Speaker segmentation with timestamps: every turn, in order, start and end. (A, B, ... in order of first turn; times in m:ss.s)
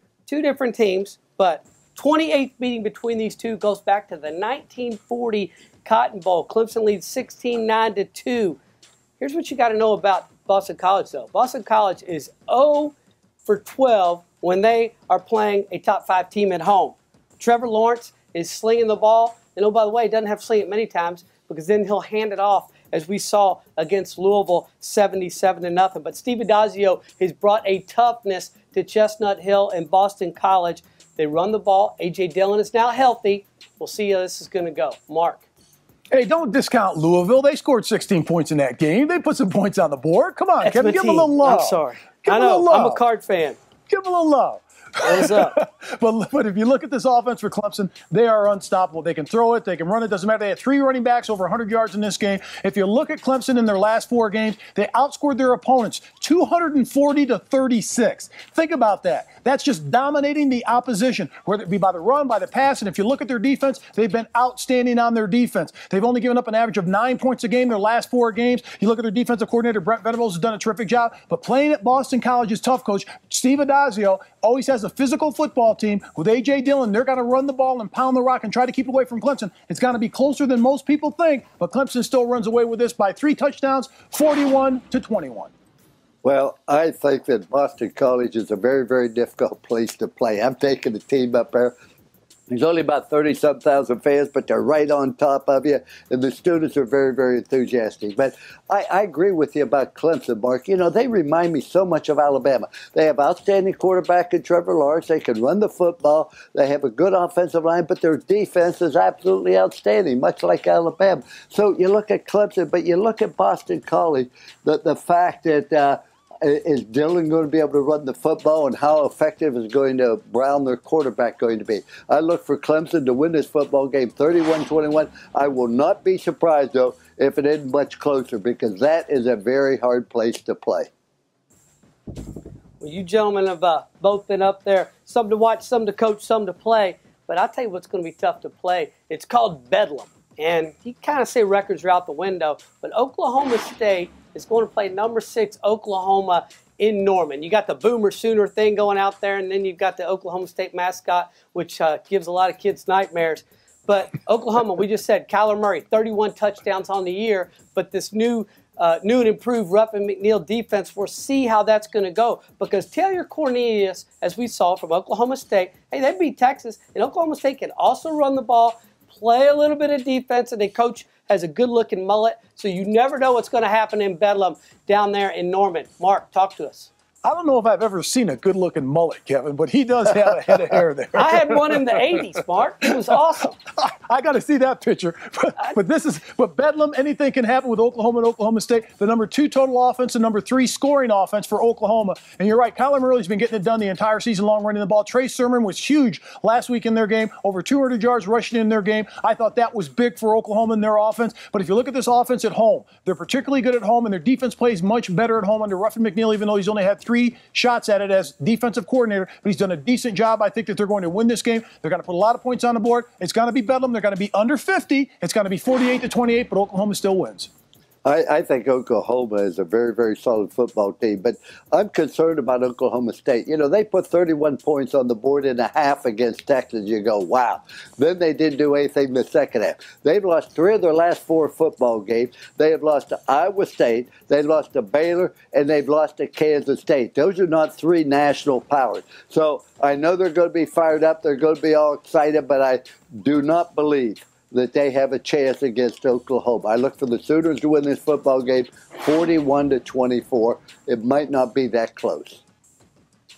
0:00.3-0:08.6 A
0:09.2-0:13.0 A
0:13.5-0:35.5 A
0:36.1-0:43.0 B
0:40.6-0:43.6 A
0:43.9-1:25.5 B
0:45.0-0:45.6 A
1:26.2-1:31.8 C
1:32.5-2:10.9 C
2:12.8-2:56.9 A
2:57.2-3:02.2 B
3:01.2-3:03.6 A
3:03.8-3:37.5 B
3:38.0-4:12.4 C